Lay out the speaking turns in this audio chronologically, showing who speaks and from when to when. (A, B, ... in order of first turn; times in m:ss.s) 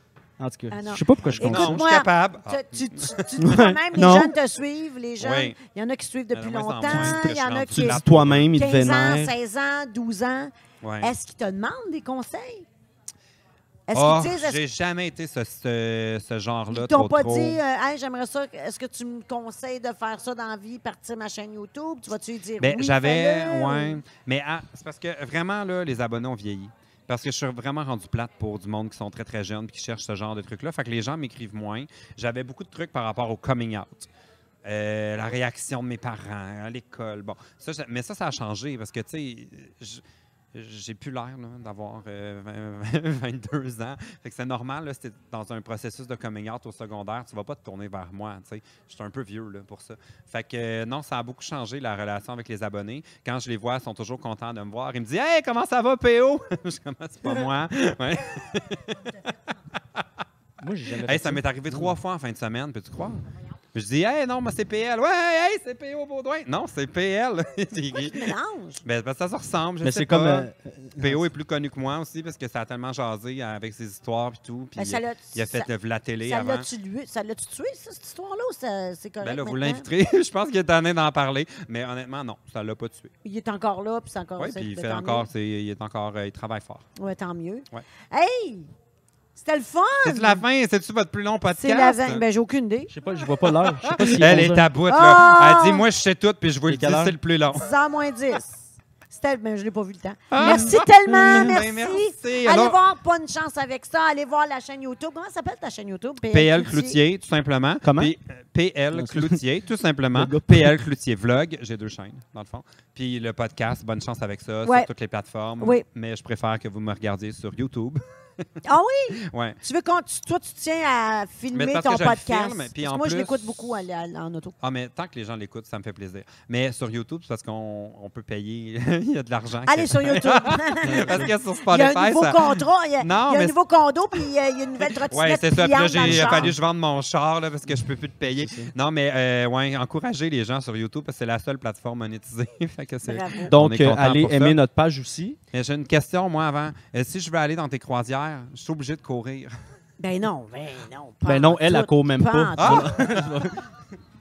0:00.4-0:01.8 A
0:00.7-0:08.0 B
0:01.2-0:03.5 C
0:03.4-0:04.3 A
0:05.2-0:05.6 C
0:06.3-0:08.7 C
0:06.9-0:09.3 A
0:08.5-0:12.7 B
0:10.8-0:11.1 C
0:13.9-0:14.6 B
0:13.9-0:17.6 C
0:16.7-0:24.0 B
0:22.6-0:34.1 C
0:34.6-0:59.2 C
0:59.7-1:00.1 C
1:00.6-1:02.0 A
1:01.0-1:08.3 C
1:07.9-1:08.8 B
1:08.8-1:16.7 C
1:09.8-1:11.2 A
1:14.8-1:15.7 B
1:16.2-1:19.9 B
1:19.2-1:23.1 C
1:23.2-1:25.3 B
1:24.4-1:26.9 C
1:27.0-1:28.7 B
1:29.4-1:30.4 B
1:30.0-1:32.2 C
1:31.5-1:32.9 B
1:32.9-1:34.7 A
1:33.5-1:37.7 C
1:34.2-1:35.8 B
1:36.7-1:37.2 A
1:37.5-1:47.0 B
1:40.3-1:42.8 C
1:40.4-1:41.6 A
1:46.3-1:58.4 C
1:47.8-1:48.1 A
1:48.9-1:49.4 A
1:50.1-1:50.7 A
1:54.6-1:54.9 B
1:55.6-1:55.8 B
1:58.6-2:04.6 B
1:59.2-1:59.6 C
2:01.5-2:03.6 C
2:04.6-2:13.6 C
2:09.7-2:16.5 B
2:10.8-2:11.3 A
2:15.0-2:24.6 C
2:16.0-2:16.5 A
2:18.4-2:18.7 A
2:23.0-2:23.5 B
2:23.5-2:25.4 A
2:25.5-2:29.5 C
2:30.0-2:33.0 B
2:31.2-2:33.6 A
2:32.6-2:33.3 C